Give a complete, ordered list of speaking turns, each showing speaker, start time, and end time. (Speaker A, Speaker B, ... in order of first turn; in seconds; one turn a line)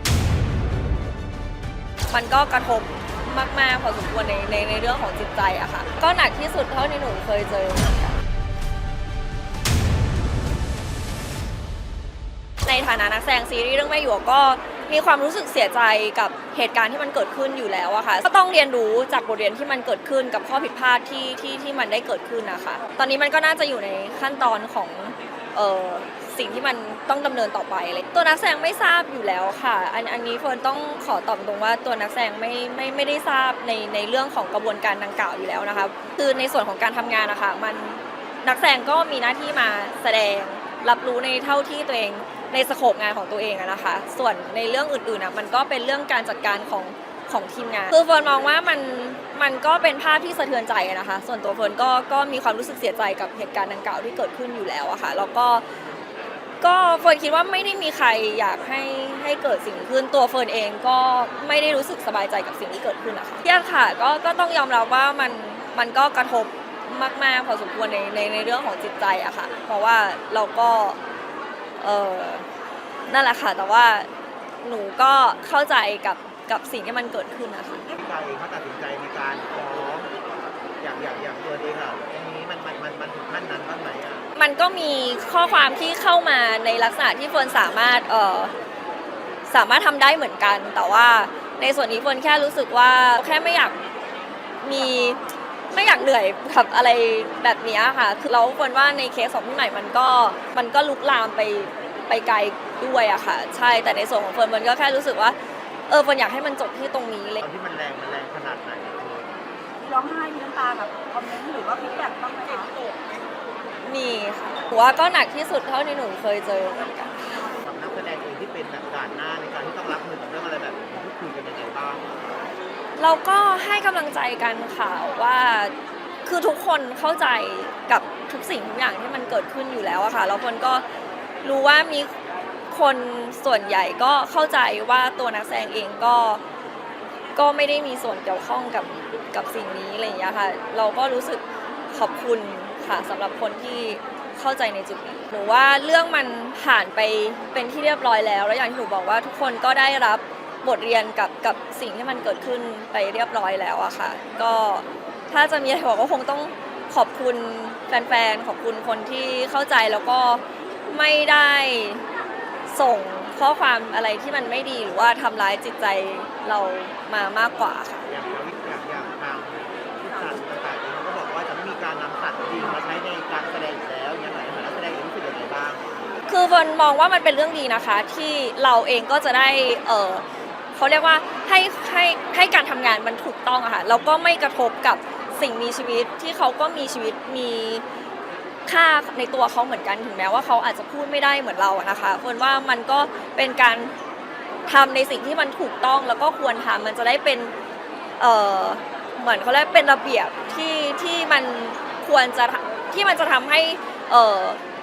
Speaker A: 2.1-8.2
Speaker A: 12.7-55.6
Speaker A: 56.6-71.0
Speaker A: 71.8-72.5
Speaker A: 73.1-74.1
Speaker A: 74.6-77.8
Speaker B: 78.0-80.2
Speaker B: 80.8-84.3
Speaker A: 84.3-88.5
Speaker A: 89.5-93.8
Speaker A: 94.6-105.4
Speaker A: 105.9-107.4
Speaker B: 107.4-109.3
Speaker C: 109.8-112.7
Speaker A: 113.8-117.5
Speaker B: 117.6-122.2
Speaker A: 123.0-125.7
Speaker A: 126.2-130.8
Speaker A: 131.4-132.1
Speaker A: 132.7-136.4
Speaker A: 137.4-162.1
Speaker A: 162.7-168.1
Speaker B: 168.1-175.8
Speaker A: 176.3-180.2
Speaker A: 180.8-187.8
Speaker A: 188.7-193.9
Speaker A: 194.7-197.5
Speaker A: 198.2-204.6